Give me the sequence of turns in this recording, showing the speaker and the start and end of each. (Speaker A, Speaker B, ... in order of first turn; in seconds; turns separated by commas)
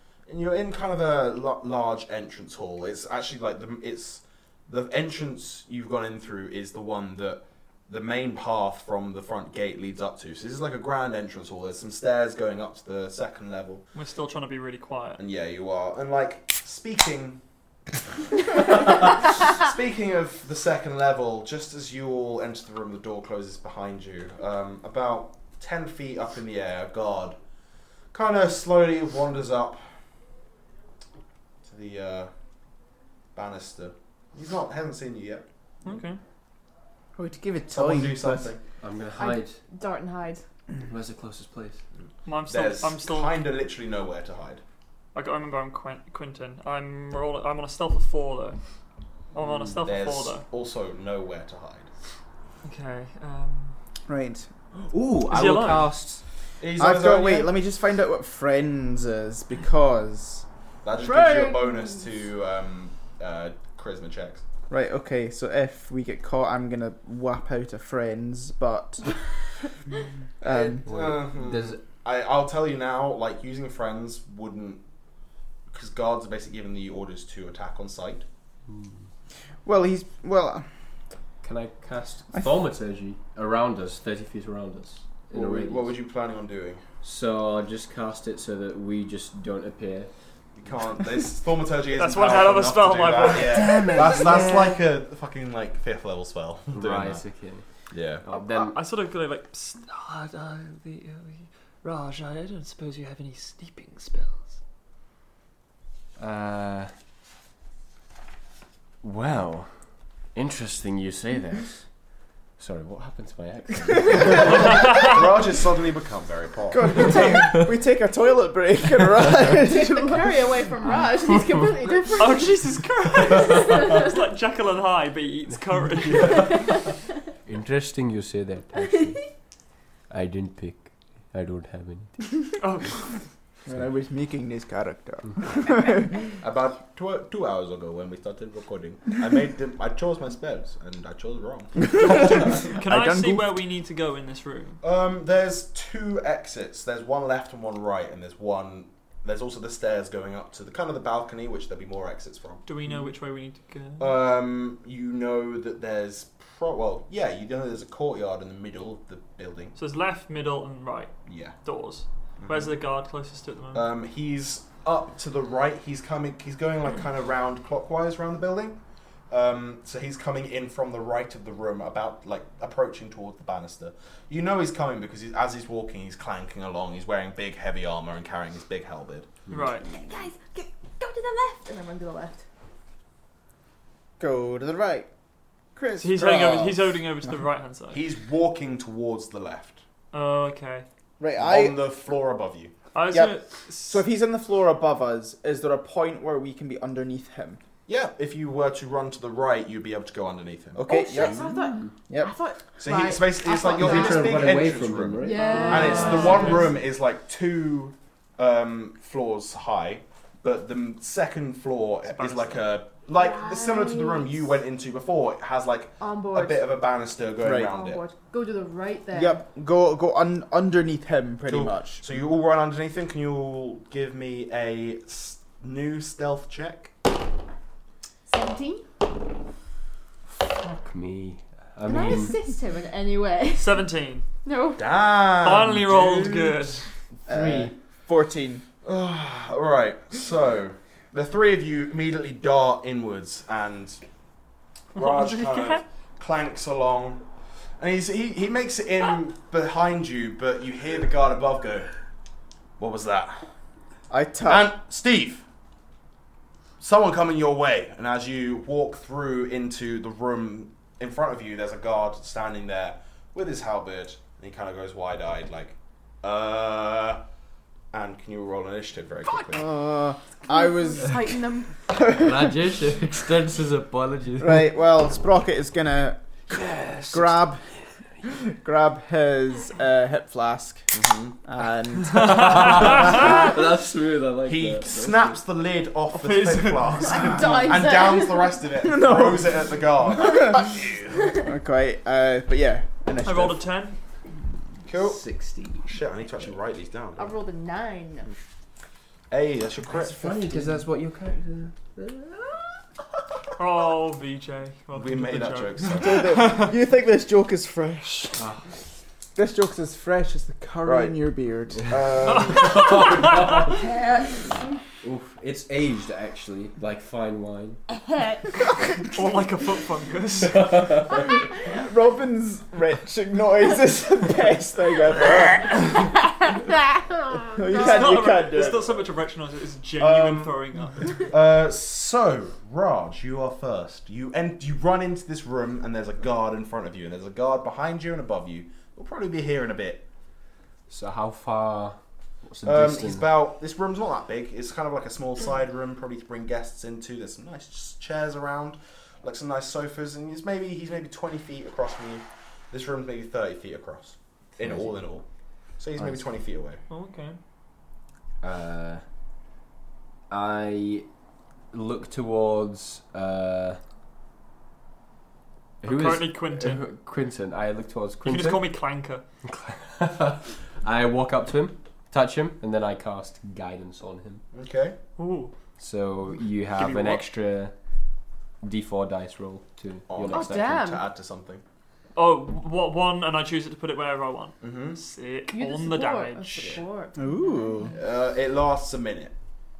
Speaker A: 0.3-13.8, Speaker B: 13.9-15.2, Speaker A: 15.2-17.4, Speaker A: 18.5-27.4, Speaker A: 28.1-29.8, Speaker A: 31.6-32.3, Speaker A: 33.3-35.4, Speaker B: 35.8-36.2, Speaker C: 37.2-38.5, Speaker A: 37.7-38.6, Speaker D: 38.8-39.6, Speaker E: 39.2-40.4, Speaker D: 40.9-41.8, Speaker B: 42.2-43.4, Speaker A: 42.5-44.6, Speaker B: 45.1-48.6, Speaker B: 49.3-50.5, Speaker A: 49.8-51.9, Speaker B: 52.6-53.8, Speaker C: 54.1-54.5, Speaker D: 54.9-56.2, Speaker B: 55.3-55.9, Speaker A: 56.6-57.5, Speaker C: 56.8-60.5, Speaker A: 60.8-64.4, Speaker E: 61.0-62.1, Speaker C: 64.7-69.2, Speaker C: 70.4-70.8, Speaker A: 70.5-74.8, Speaker D: 70.9-71.8, Speaker A: 75.7-78.3, Speaker D: 78.7-79.0, Speaker C: 79.7-80.7, Speaker D: 81.4-85.9, Speaker A: 85.3-86.8, Speaker D: 87.0-90.1, Speaker A: 90.6-97.3, Speaker B: 92.0-94.0, Speaker D: 93.4-94.8, Speaker D: 96.7-97.7, Speaker A: 97.9-98.2, Speaker D: 98.2-98.8, Speaker B: 98.3-104.5, Speaker D: 106.2-106.9, Speaker D: 109.0-109.7, Speaker D: 110.3-111.9, Speaker D: 112.6-114.7, Speaker A: 114.9-117.3, Speaker C: 116.7-120.3, Speaker E: 119.6-124.1, Speaker B: 122.2-126.7, Speaker D: 126.2-126.7, Speaker E: 126.3-127.0, Speaker D: 127.5-129.3, Speaker D: 129.9-132.3, Speaker B: 132.6-133.2, Speaker C: 133.7-136.3, Speaker A: 136.4-141.9, Speaker C: 141.9-143.5, Speaker B: 142.1-144.8, Speaker A: 144.8-152.7, Speaker B: 152.7-154.2, Speaker A: 154.0-159.8, Speaker B: 159.8-163.9, Speaker A: 161.3-161.6, Speaker A: 162.4-162.7, Speaker A: 163.7-179.3, Speaker B: 179.5-179.9, Speaker E: 179.9-182.4, Speaker C: 184.2-185.1, Speaker C: 185.8-186.9, Speaker B: 186.0-188.0, Speaker A: 187.9-189.8, Speaker B: 190.1-190.9, Speaker C: 191.2-191.8, Speaker A: 191.4-192.7, Speaker B: 192.9-194.1, Speaker C: 193.1-197.6, Speaker A: 197.9-201.4, Speaker C: 200.8-201.5, Speaker E: 200.9-204.6, Speaker A: 202.8-218.0, Speaker D: 203.7-206.7, Speaker E: 205.2-206.7, Speaker B: 205.5-206.7, Speaker B: 212.2-212.7, Speaker E: 213.2-214.4, Speaker E: 216.0-216.8, Speaker C: 217.4-217.7, Speaker E: 217.5-219.4, Speaker C: 219.1-222.0, Speaker A: 221.5-226.9, Speaker E: 228.3-228.8, Speaker D: 230.3-232.4, Speaker E: 231.8-233.9, Speaker B: 233.6-234.2, Speaker E: 234.4-235.0, Speaker A: 234.8-236.5, Speaker B: 235.4-236.9, Speaker D: 237.3-237.7, Speaker C: 237.3-238.6, Speaker A: 238.8-244.0, Speaker B: 244.9-245.8, Speaker A: 244.9-247.2, Speaker A: 247.8-251.9, Speaker A: 252.8-253.4, Speaker C: 254.1-254.7, Speaker A: 254.5-255.4, Speaker A: 256.8-267.2, Speaker A: 267.9-269.6, Speaker C: 269.5-271.4, Speaker E: 270.5-271.8, Speaker C: 271.9-272.7, Speaker D: 272.1-274.7, Speaker C: 274.4-277.6, Speaker D: 276.5-277.4, Speaker C: 278.2-280.9, Speaker A: 280.9-281.4, Speaker C: 281.4-283.2, Speaker D: 282.1-285.4, Speaker B: 282.2-283.3, Speaker A: 284.4-291.1, Speaker B: 286.1-287.3, Speaker E: 287.0-288.6, Speaker C: 287.3-288.0, Speaker C: 288.8-290.8, Speaker E: 290.3-291.5, Speaker C: 291.3-293.7, Speaker B: 293.2-294.0, Speaker A: 294.9-295.3, Speaker D: 294.9-295.9, Speaker A: 295.8-297.3, Speaker E: 297.2-298.3, Speaker A: 299.3-300.3, Speaker D: 299.9-302.7, Speaker B: 303.6-306.7, Speaker A: 304.9-306.3, Speaker C: 305.9-308.5, Speaker D: 308.4-308.7, Speaker C: 309.4-311.9, Speaker A: 310.9-311.2, Speaker A: 311.8-313.2, Speaker B: 312.2-313.7, Speaker D: 312.6-313.7, Speaker D: 315.0-317.8, Speaker E: 317.9-318.4, Speaker B: 319.1-321.1, Speaker D: 320.6-321.2, Speaker C: 321.6-326.1, Speaker C: 327.3-329.0, Speaker E: 327.6-328.2, Speaker B: 327.8-331.2, Speaker A: 330.0-330.5, Speaker A: 331.1-340.1, Speaker D: 340.9-343.3, Speaker A: 342.6-355.3, Speaker D: 354.6-355.0, Speaker A: 355.8-356.8, Speaker D: 356.0-356.3, Speaker B: 356.9-357.4, Speaker D: 358.4-359.0, Speaker D: 360.3-361.1, Speaker D: 361.7-363.8, Speaker D: 365.8-368.7, Speaker B: 365.8-366.8, Speaker B: 368.2-369.2, Speaker D: 369.4-374.4, Speaker A: 374.5-375.0, Speaker B: 375.2-375.5, Speaker D: 375.8-377.7, Speaker B: 376.7-377.3, Speaker D: 378.6-380.8, Speaker A: 380.1-381.6, Speaker E: 380.3-381.0, Speaker B: 382.1-386.8, Speaker A: 384.6-385.0, Speaker E: 385.5-388.0, Speaker C: 387.2-387.9, Speaker A: 387.9-389.3